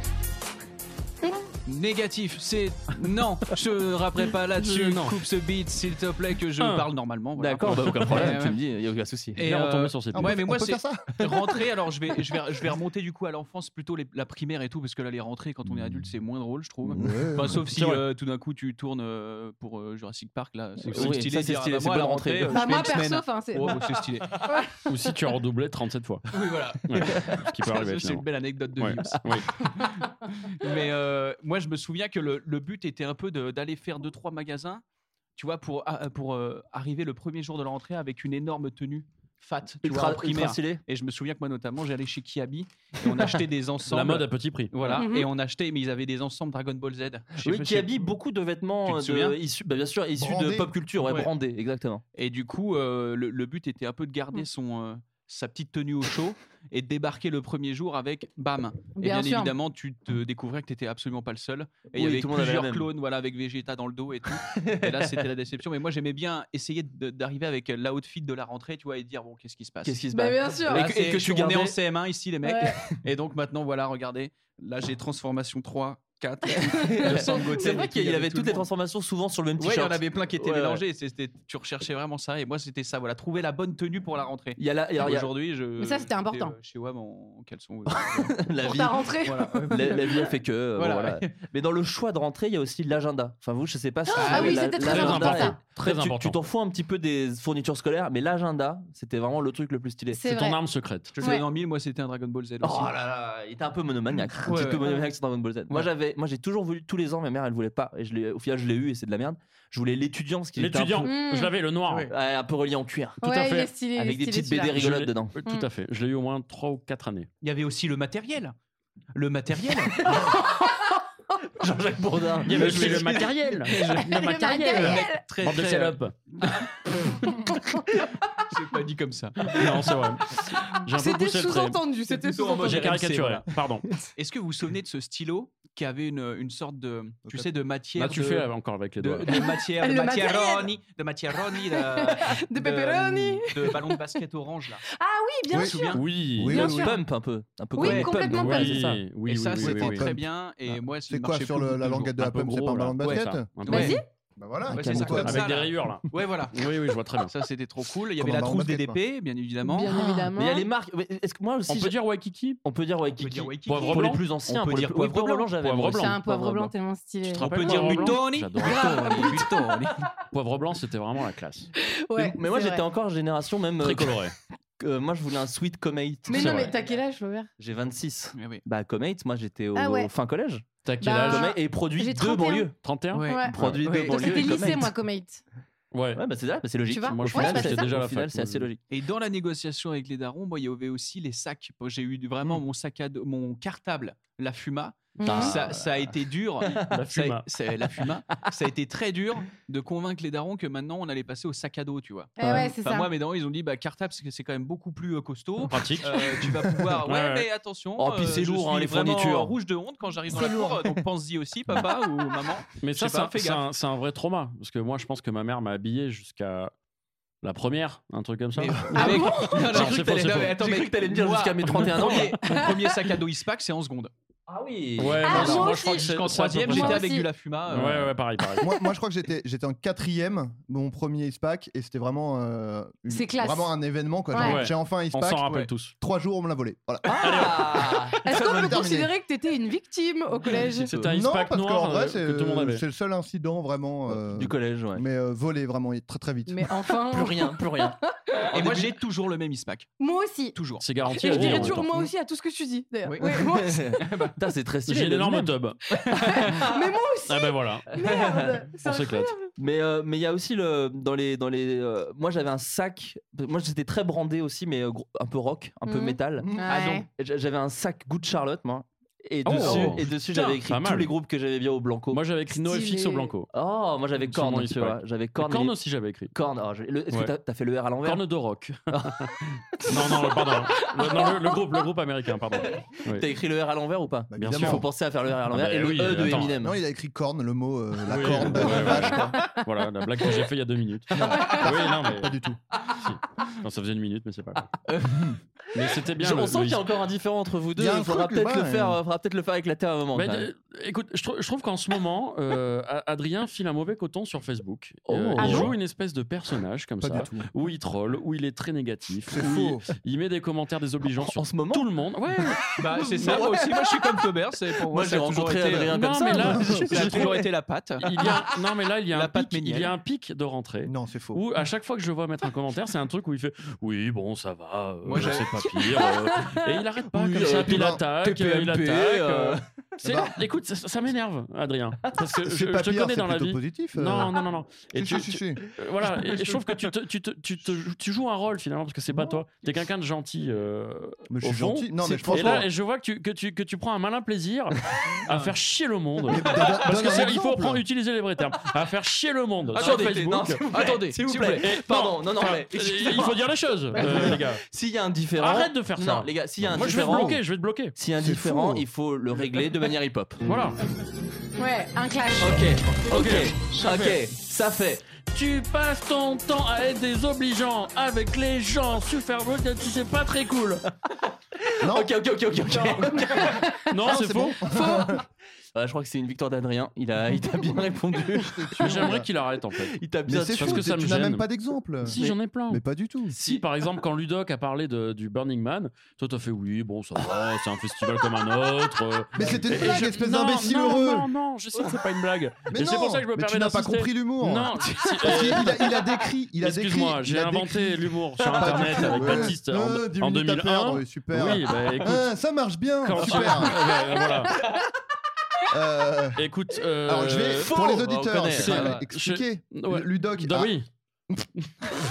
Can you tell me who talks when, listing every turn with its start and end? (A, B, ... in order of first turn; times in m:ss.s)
0:01.6-0:08.6 A
0:04.6-0:05.2 B
0:06.6-0:06.8 B
0:07.4-0:09.4 C
0:07.6-0:08.3 B
0:09.4-0:24.4 A
0:09.4-0:10.4 B
0:10.1-0:11.2 D
0:16.9-0:17.6 D
0:17.7-0:18.0 B
0:20.8-0:21.1 B
0:20.9-0:23.0 C
0:22.5-0:23.8 E
0:24.9-0:26.3 B
0:26.3-0:34.8 A
0:26.8-0:29.6 B
0:35.4-0:48.1 A
0:39.8-0:40.8 C
0:43.9-0:45.0 B
0:45.0-0:45.3 E
0:47.4-0:52.0 C
0:48.8-0:49.4 A
0:50.2-0:50.7 D
0:51.0-0:51.3 A
0:52.1-1:10.0 A
0:59.0-0:59.5 E
1:01.9-1:02.9 C
1:04.3-1:05.2 C
1:09.8-1:11.8 C
1:10.1-1:10.8 E
1:10.7-1:18.7 A
1:12.4-1:12.8 E
1:16.7-1:20.8 C
1:19.6-1:31.4 A
1:24.6-1:25.3 C
1:25.8-1:26.5 E
1:27.9-1:40.2 C
1:28.6-1:30.0 E
1:34.1-1:35.6 E
1:34.1-1:34.8 A
1:34.7-1:36.4 B
1:40.1-1:40.6 E
1:40.3-1:41.1 B
1:41.1-1:42.9 A
1:42.6-1:51.1 C
1:44.4-1:45.1 A
1:50.6-1:52.1 B
1:51.0-1:51.5 E
1:52.1-1:53.2 C
1:53.2-1:53.7 B
1:53.2-1:54.8 E
1:53.9-1:55.4 C
1:54.7-1:57.3 B
1:57.4-1:58.5 A
1:59.1-2:00.4 A
2:00.0-2:00.4 C
2:01.5-2:03.2 C
2:02.4-2:06.1 B
2:02.5-2:07.4 A
2:04.0-2:05.2 E
2:07.3-2:07.8 E
2:08.3-2:09.9 A
2:09.4-2:11.8 B
2:10.5-2:12.9 E
2:12.1-2:24.8 A
2:12.6-2:13.9 B
2:18.0-2:19.4 B
2:19.3-2:20.7 E
2:21.6-2:24.0 E
2:24.9-2:27.0 E
2:25.5-2:26.9 D
2:25.5-2:26.0 A
2:25.9-2:26.7 B
2:26.5-2:28.9 C
2:27.7-2:29.0 E
2:27.8-2:28.3 A
2:28.3-2:30.1 B
2:29.2-2:32.2 A
2:29.6-2:33.5 D
2:32.2-2:34.0 B
2:33.0-2:34.0 A
2:33.6-2:34.0 E
2:34.4-2:35.4 D
2:34.7-2:39.9 A
2:34.7-2:35.4 C
2:35.1-2:37.3 B
2:38.2-2:39.0 D
2:39.6-2:40.7 E
2:39.9-2:41.9 C
2:41.7-2:42.6 B
2:42.6-2:46.7 C
2:43.2-2:45.5 A
2:43.7-2:44.2 B
2:45.6-2:46.2 B
2:46.0-2:49.5 E
2:47.3-2:49.4 B
2:47.3-2:50.1 A
2:50.3-2:51.7 B
2:51.8-2:52.8 E
2:52.2-2:56.8 C
2:53.8-2:54.3 B
2:56.3-2:57.5 E
2:56.3-2:56.7 B
2:57.6-3:00.7 C
2:58.3-2:58.6 A
2:59.7-3:00.1 E
3:00.8-3:01.5 B
3:01.0-3:02.7 E
3:01.2-3:02.8 C
3:02.8-3:03.8 B
3:03.1-3:04.6 A
3:03.2-3:05.4 E
3:03.5-3:04.9 C
3:05.9-3:06.2 B
3:06.1-3:08.8 C
3:06.9-3:07.9 E
3:07.1-3:08.7 B
3:08.9-3:33.6 A
3:15.2-3:15.5 E
3:15.2-3:16.9 C
3:16.8-3:17.5 B
3:22.4-3:23.1 E
3:25.7-3:26.4 B
3:27.0-3:27.5 B
3:28.0-3:29.6 C
3:32.8-3:36.7 B
3:37.4-3:40.6 B
3:38.6-3:44.1 A
3:38.9-3:39.5 E
3:39.7-3:42.4 C
3:41.6-3:42.4 B
3:44.5-3:45.6 C
3:45.0-3:47.1 B
3:45.2-3:46.1 E
3:45.3-3:45.7 D
3:45.5-3:48.2 A
3:46.7-3:47.3 E
3:47.7-3:48.7 B
3:48.6-3:57.5 D
3:53.1-3:53.7 E
3:54.3-3:54.6 E
3:54.4-3:55.9 B
3:57.1-3:58.3 C
3:57.2-3:57.9 B
3:58.2-4:00.9 E
3:58.3-3:59.1 D
4:00.5-4:01.1 C
4:00.9-4:02.8 B
4:01.1-4:06.8 D
4:04.1-4:05.0 C
4:06.5-4:08.5 E
4:07.1-4:08.0 C
4:08.5-4:09.0 C
4:08.5-4:09.9 A
4:10.0-4:13.9 E
4:10.5-4:10.8 A
4:10.8-4:11.9 B
4:11.4-4:11.7 C
4:13.2-4:15.5 C
4:14.0-4:14.3 A
4:14.9-4:15.8 B
4:16.0-4:19.5 E
4:16.2-4:16.9 C
4:17.3-4:17.9 B
4:18.0-4:18.6 C
4:18.8-4:19.3 B
4:19.6-4:32.2 C
4:25.8-4:27.1 E
4:26.4-4:26.7 D
4:29.4-4:31.1 B
4:32.1-4:33.5 B
4:32.5-4:33.3 E
4:33.5-4:35.7 C
4:34.2-4:36.3 B
4:36.3-4:38.2 C
4:38.0-4:43.2 B
4:38.9-4:39.2 C
4:42.7-4:46.8 C
4:44.3-4:44.8 D
4:44.4-4:44.8 B
4:45.5-4:46.5 B
4:46.6-4:49.4 D
4:48.1-4:52.3 B
4:48.3-4:49.1 C
4:51.1-4:52.6 D
4:51.3-4:51.6 E
4:53.0-4:54.7 B
4:54.9-5:00.5 C
4:55.7-4:56.8 B
4:57.8-4:59.0 D
5:00.1-5:12.6 B
5:05.1-5:05.7 C
5:05.4-5:05.7 E
5:07.0-5:07.5 D
5:09.3-5:09.8 D
5:11.2-5:11.8 C
5:12.8-5:16.0 A
5:13.2-5:14.0 C
5:14.9-5:17.5 C
5:15.9-5:17.1 B
5:16.4-5:16.8 D
5:16.6-5:18.1 A
5:18.0-5:50.6 B
5:19.1-5:19.9 A
5:20.8-5:21.4 D
5:25.1-5:26.0 A
5:26.0-5:26.6 E
5:27.2-5:28.0 A
5:27.2-5:29.6 C
5:27.6-5:28.0 D
5:30.0-5:30.3 D
5:32.4-5:34.4 D
5:34.9-5:35.6 D
5:36.1-5:36.8 C
5:39.1-5:39.4 D
5:41.3-5:42.7 D
5:42.0-5:42.6 C
5:46.3-5:47.8 D
5:49.7-5:53.4 C
5:49.8-5:51.7 A
5:51.6-5:54.6 B
5:53.9-5:57.4 C
5:55.4-5:57.9 B
5:57.9-6:00.4 C
5:58.2-5:58.8 D
6:00.4-6:00.8 B
6:01.6-6:02.6 E
6:02.4-6:05.0 C
6:03.1-6:04.2 B
6:05.2-6:10.8 B
6:11.8-6:13.5 D
6:11.8-6:13.6 C
6:13.3-6:13.9 E
6:13.9-6:14.6 B
6:14.0-6:15.2 D
6:14.7-6:15.2 E
6:15.7-6:19.2 C
6:18.3-6:19.2 D
6:18.8-6:20.0 B
6:19.8-6:21.1 C
6:20.3-6:23.4 D
6:20.6-6:21.4 B
6:22.0-6:36.0 B
6:22.1-6:22.4 C
6:23.4-6:23.6 C
6:29.3-6:31.3 D
6:32.7-6:43.9 D
6:36.6-6:42.3 B
6:43.0-6:44.6 B
6:45.7-6:46.4 D
6:46.4-6:47.8 B
6:47.0-6:50.7 D
6:47.5-6:49.0 C
6:48.5-6:50.9 B